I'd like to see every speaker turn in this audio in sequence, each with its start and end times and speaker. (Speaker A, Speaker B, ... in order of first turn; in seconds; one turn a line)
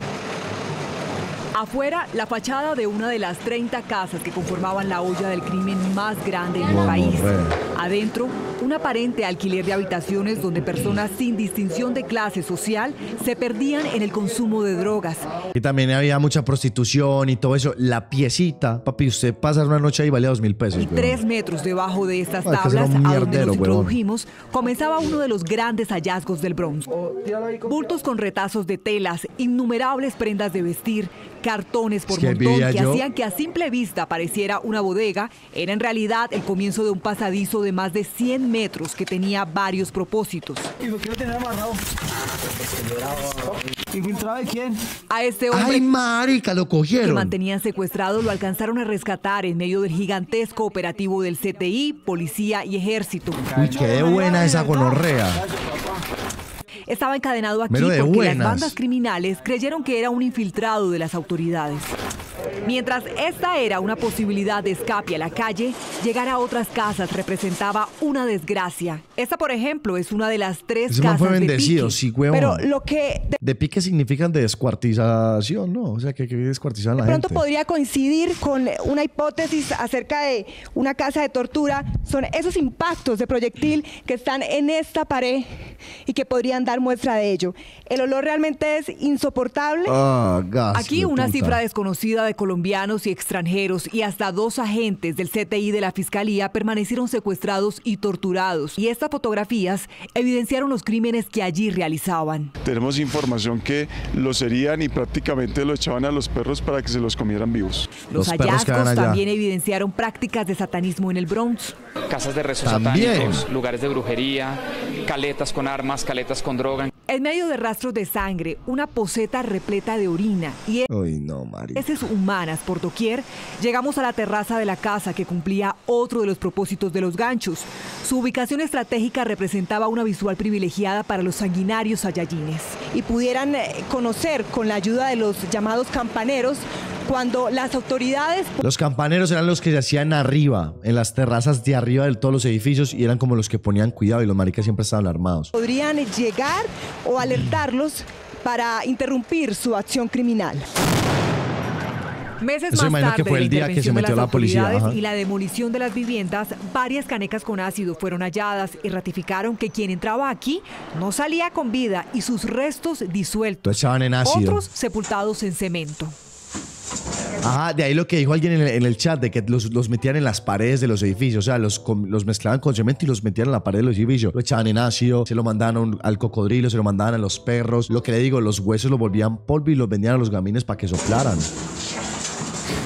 Speaker A: 1.5-15.4
Speaker B: 6.6-7.6
Speaker B: 15.5-21.2
Speaker A: 20.8-26.9
Speaker B: 22.4-24.0
Speaker C: 26.9-28.0
Speaker A: 27.7-40.7
Speaker B: 32.1-33.0
Speaker C: 40.8-41.8
Speaker C: 42.5-44.8
Speaker A: 45.1-45.9
Speaker B: 45.5-47.4
Speaker A: 47.0-53.4
Speaker C: 53.5-55.8
Speaker B: 53.6-55.4
Speaker A: 56.9-61.9
Speaker B: 57.7-58.8
Speaker A: 62.6-72.0
Speaker B: 70.9-72.7
Speaker D: 72.3-73.4
Speaker B: 73.4-77.5
Speaker D: 77.0-90.0
Speaker B: 89.8-91.6
Speaker A: 90.7-102.5
Speaker E: 102.6-107.9
Speaker A: 108.1-111.8
Speaker B: 108.1-109.2
Speaker F: 112.1-116.9
Speaker B: 112.6-113.5
Speaker A: 117.1-120.9
Speaker B: 120.9-121.9
Speaker A: 121.8-132.8
Speaker D: 132.8-138.5
Speaker B: 138.6-145.5
Speaker D: 145.5-150.7
Speaker A: 152.4-166.2
Speaker B: 152.7-155.0
Speaker B: 163.7-164.6
Speaker B: 167.4-181.5